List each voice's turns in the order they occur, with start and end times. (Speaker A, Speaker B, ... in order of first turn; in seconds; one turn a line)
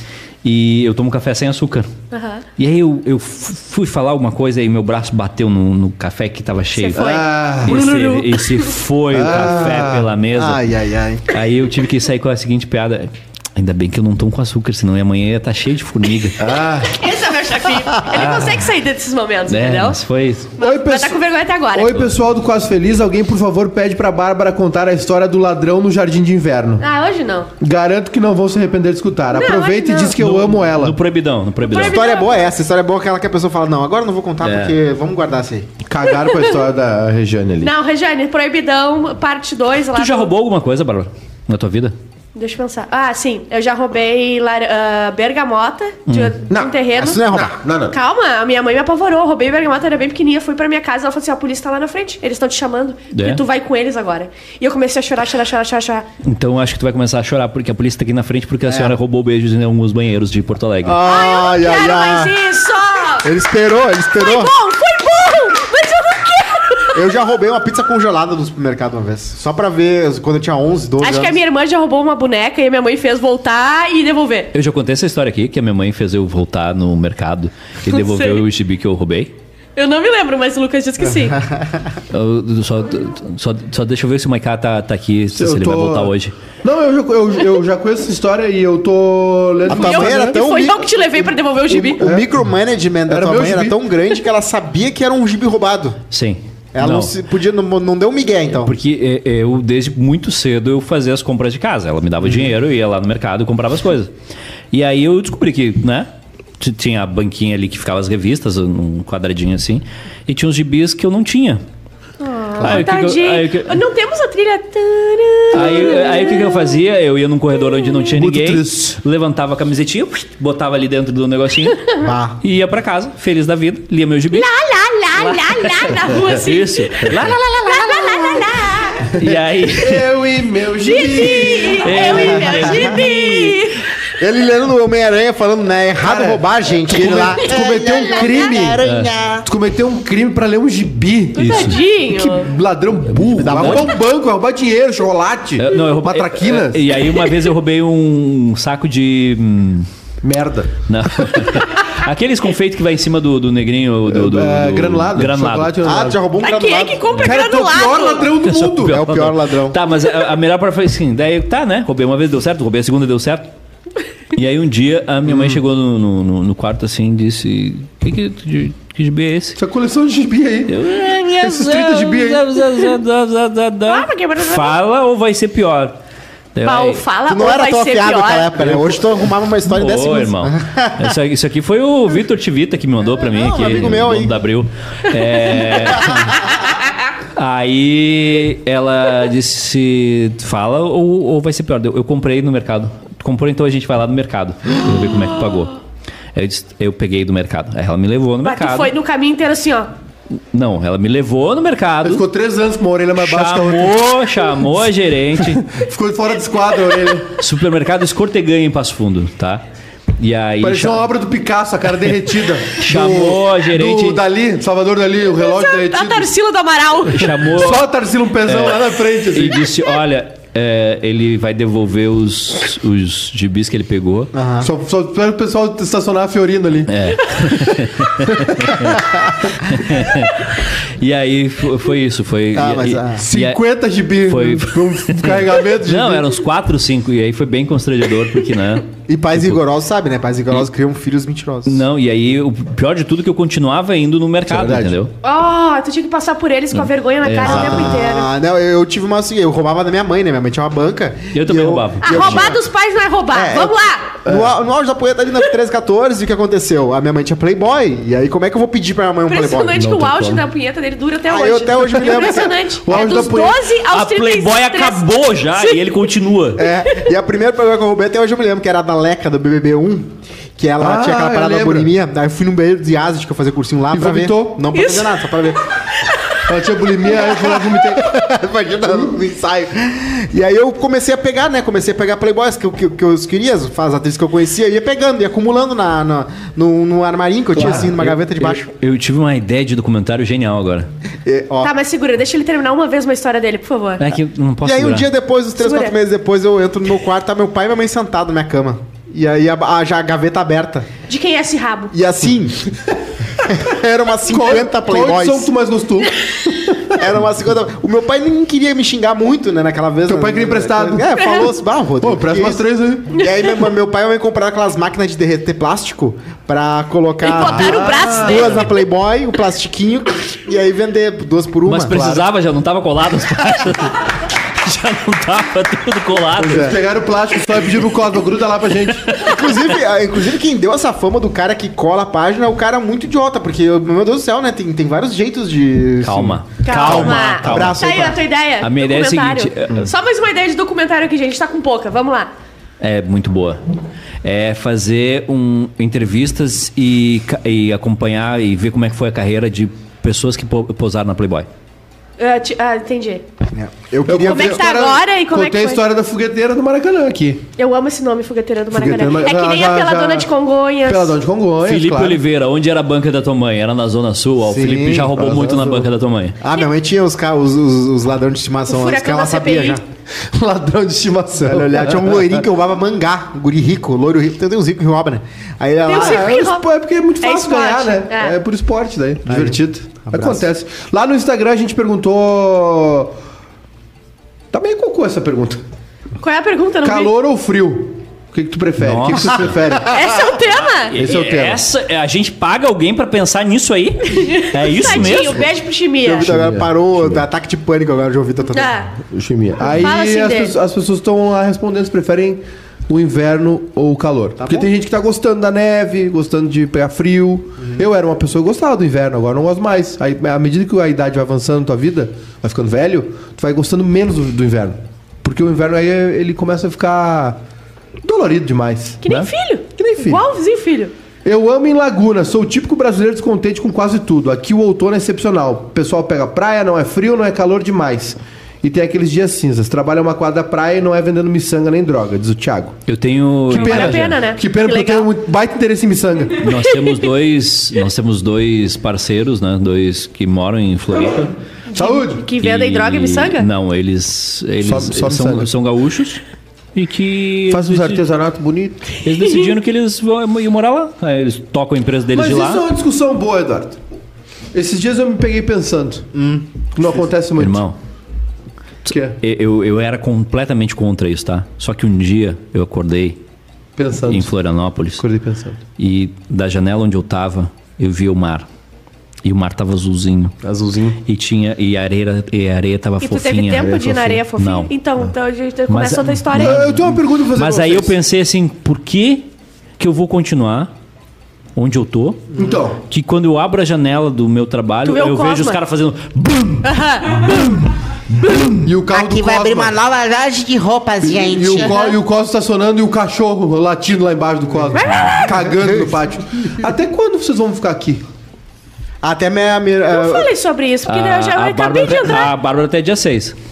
Speaker A: 0.4-1.9
Speaker B: 2.1-2.4
Speaker A: 2.6-10.6
Speaker B: 6.7-8.8
Speaker C: 6.9-7.8
Speaker C: 9.1-10.1
Speaker D: 10.3-11.2
Speaker A: 11.3-16.4
Speaker C: 16.4-17.0
Speaker B: 16.9-20.0
Speaker A: 18.1-18.6
Speaker A: 19.5-20.5
Speaker B: 20.6-22.1
Speaker C: 20.6-21.2
Speaker C: 21.7-26.9
Speaker B: 26.8-27.5
Speaker C: 27.6-31.0
Speaker B: 29.3-30.1
Speaker A: 30.1-32.0
Speaker B: 31.6-32.5
Speaker D: 31.8-35.7
Speaker A: 34.4-34.8
Speaker C: 35.9-37.7
Speaker B: 36.2-36.5
Speaker B: 37.6-40.3
Speaker A: 39.9-41.9
Speaker B: 42.3-47.2
Speaker A: 46.1-46.4
Speaker C: 46.5-48.0
Speaker D: 46.9-47.5
Speaker B: 47.9-56.1
Speaker A: 53.1-53.4
Speaker A: 56.2-61.0
Speaker D: 58.6-59.0
Speaker D: 60.8-62.3
Speaker B: 61.0-63.3
Speaker D: 63.2-64.5
Speaker B: 64.1-67.0
Speaker D: 66.9-71.4
Speaker B: 71.0-74.5
Speaker A: 74.5-79.3
Speaker B: 77.8-78.4
Speaker B: 79.8-81.4
Speaker D: 81.0-82.0
Speaker A: 82.1-86.3
Speaker C: 85.3-90.5
Speaker D: 89.7-90.9
Speaker B: 89.7-92.0
Speaker C: 91.7-92.4
Speaker D: 92.0-96.0
Speaker C: 93.1-93.8
Speaker A: 96.1-97.1
Speaker D: 96.7-98.7
Speaker A: 98.5-104.1
Speaker A: 104.7-106.1
Speaker A: 106.6-111.6
Speaker B: 112.2-116.8
Speaker A: 112.6-113.8
Speaker A: 115.5-121.8
Speaker B: 117.7-118.0
Speaker C: 118.1-119.0
Speaker D: 122.0-122.4
Speaker A: 122.4-124.5
Speaker B: 124.3-129.0
Speaker A: 125.1-127.8
Speaker C: 129.1-132.8
Speaker A: 129.1-130.1
Speaker B: 130.8-133.8
Speaker A: 131.8-133.6
Speaker D: 132.0-133.0
Speaker D: 134.2-139.5
Speaker C: 136.0-138.8
Speaker A: 138.8-139.1
Speaker C: 139.4-146.9
Speaker B: 141.3-142.5
Speaker A: 141.4-141.8
Speaker D: 143.2-143.9
Speaker A: 143.4-143.9
Speaker A: 145.6-149.9
Speaker C: 150.2-150.7
Speaker A: 150.8-155.7
Speaker C: 154.1-156.2
Speaker D: 155.8-157.1
Speaker B: 156.4-158.3
Speaker C: 157.2-159.0
Speaker A: 158.4-163.5
Speaker D: 158.9-159.8
Speaker A: 164.3-169.6
Speaker C: 169.6-170.8
Speaker A: 170.7-176.0
Speaker C: 171.3-172.8
Speaker B: 173.9-174.8
Speaker A: 176.5-177.0
Speaker B: 176.6-178.7
Speaker D: 177.3-181.1
Speaker C: 178.7-179.0
Speaker A: 179.7-186.4
Speaker D: 183.3-184.3
Speaker D: 186.0-186.2
Speaker A: 187.3-195.7
Speaker A: 196.3-198.9
Speaker B: 198.4-199.9
Speaker A: 200.5-202.2
Speaker C: 202.0-203.9
Speaker A: 203.2-205.7
Speaker C: 205.4-207.4
Speaker A: 207.4-209.6
Speaker A: 210.2-211.1
Speaker C: 210.6-216.3
Speaker A: 212.7-214.2
Speaker B: 215.3-217.4
Speaker A: 217.1-217.9
Speaker C: 217.5-219.7
Speaker A: 218.4-224.3
Speaker D: 224.3-224.7
Speaker C: 224.6-227.7
Speaker A: 226.9-233.6
Speaker C: 228.2-228.9
Speaker D: 228.9-229.6
Speaker D: 232.5-233.2
Speaker C: 233.1-236.4
Speaker A: 234.3-239.6
Speaker D: 239.1-241.8
Speaker A: 241.6-245.1
Speaker C: 244.5-245.0
Speaker B: 245.2-248.3
Speaker A: 246.7-248.0
Speaker D: 247.4-252.6
Speaker A: 251.3-252.5
Speaker B: 252.0-254.2
Speaker C: 253.3-253.7
Speaker D: 253.4-253.7
Speaker D: 254.2-259.9
Speaker C: 254.2-254.5
Speaker B: 259.3-266.0
Speaker C: 259.7-260.4
Speaker D: 261.3-262.6
Speaker C: 262.0-263.6
Speaker A: 263.9-266.6
Speaker D: 266.6-275.6
Speaker C: 270.8-271.9
Speaker C: 273.9-274.6
Speaker B: 274.7-275.6
Speaker C: 276.5-278.1
Speaker D: 277.1-288.7
Speaker C: 278.8-279.1
Speaker C: 287.5-288.0
Speaker A: 288.0-290.9
Speaker D: 291.2-291.7
Speaker B: 291.6-294.1
Speaker A: 294.0-295.1
Speaker D: 294.6-300.9
Speaker B: 295.6-295.9
Speaker B: 301.1-301.9
Speaker D: 301.9-302.7
Speaker D: 303.4-305.5
Speaker C: 304.3-306.9
Speaker D: 306.9-322.1
Speaker C: 310.1-311.1
Speaker B: 311.2-311.5
Speaker C: 312.0-313.2
Speaker B: 313.2-313.6
Speaker B: 317.2-318.8
Speaker C: 317.4-318.6
Speaker A: 321.6-326.8
Speaker C: 321.9-322.2
Speaker C: 326.4-329.1
Speaker D: 326.5-326.8
Speaker A: 329.1-329.6
Speaker D: 329.2-338.2
Speaker A: 336.0-337.9
Speaker B: 336.6-342.3
Speaker A: 338.6-339.9
Speaker A: 342.8-343.6
Speaker A: 344.2-351.5
Speaker B: 352.2-353.2
Speaker D: 353.5-354.6
Speaker C: 354.1-357.5
Speaker B: 354.2-355.8
Speaker B: 357.6-361.2
Speaker C: 358.7-360.3
Speaker C: 360.8-362.2
Speaker A: 361.6-366.4
Speaker D: 364.4-365.3
Speaker C: 365.1-365.9
Speaker D: 366.4-369.8
Speaker B: 368.7-369.8
Speaker C: 370.1-372.4
Speaker D: 371.4-376.3
Speaker B: 375.8-376.7
Speaker C: 375.9-383.2
Speaker B: 377.2-378.4
Speaker D: 379.2-380.4
Speaker C: 384.5-385.6
Speaker B: 386.2-387.1
Speaker C: 386.8-389.9
Speaker A: 388.8-389.6
Speaker D: 389.1-390.3
Speaker B: 389.9-390.9
Speaker A: 390.9-395.4
Speaker C: 390.9-391.6
Speaker B: 394.1-396.3
Speaker D: 395.0-395.5
Speaker C: 396.0-397.2
Speaker D: 396.1-398.7
Speaker B: 398.5-398.9
Speaker C: 399.1-417.4
Speaker B: 399.6-400.5
Speaker D: 404.4-404.7
Speaker C: 418.0-420.2
Speaker B: 419.0-420.9
Speaker C: 421.2-432.8
Speaker A: 432.9-434.2
Speaker C: 433.5-436.6
Speaker B: 433.5-435.1
Speaker A: 436.4-441.3
Speaker B: 441.7-443.5
Speaker C: 441.7-442.2
Speaker A: 442.4-446.2
Speaker C: 444.6-445.5
Speaker A: 446.7-448.0
Speaker C: 447.5-448.9
Speaker A: 449.0-452.6
Speaker C: 452.1-453.8
Speaker C: 454.5-456.1
Speaker D: 456.1-456.5
Speaker C: 456.7-457.6
Speaker A: 457.4-457.8
Speaker A: 458.8-463.2
Speaker C: 458.9-459.2
Speaker C: 463.8-464.3
Speaker A: 464.1-465.0
Speaker C: 465.0-465.6
Speaker A: 465.8-468.5
Speaker A: 469.2-470.4
Speaker C: 470.4-471.0
Speaker A: 471.0-474.7
Speaker B: 473.0-476.7
Speaker C: 473.7-474.2
Speaker A: 475.7-480.7
Speaker C: 476.3-477.9
Speaker A: 481.6-482.3
Speaker C: 482.3-482.8
Speaker A: 482.8-487.6
Speaker B: 484.8-485.6
Speaker B: 486.6-487.3
Speaker A: 488.2-488.6
Speaker C: 488.6-489.7
Speaker E: 488.9-491.7
Speaker C: 491.0-498.0
Speaker B: 491.6-492.0
Speaker B: 494.7-495.4
Speaker A: 494.8-495.2
Speaker D: 495.6-496.6
Speaker D: 499.0-500.3
Speaker B: 499.9-502.3
Speaker A: 500.9-503.3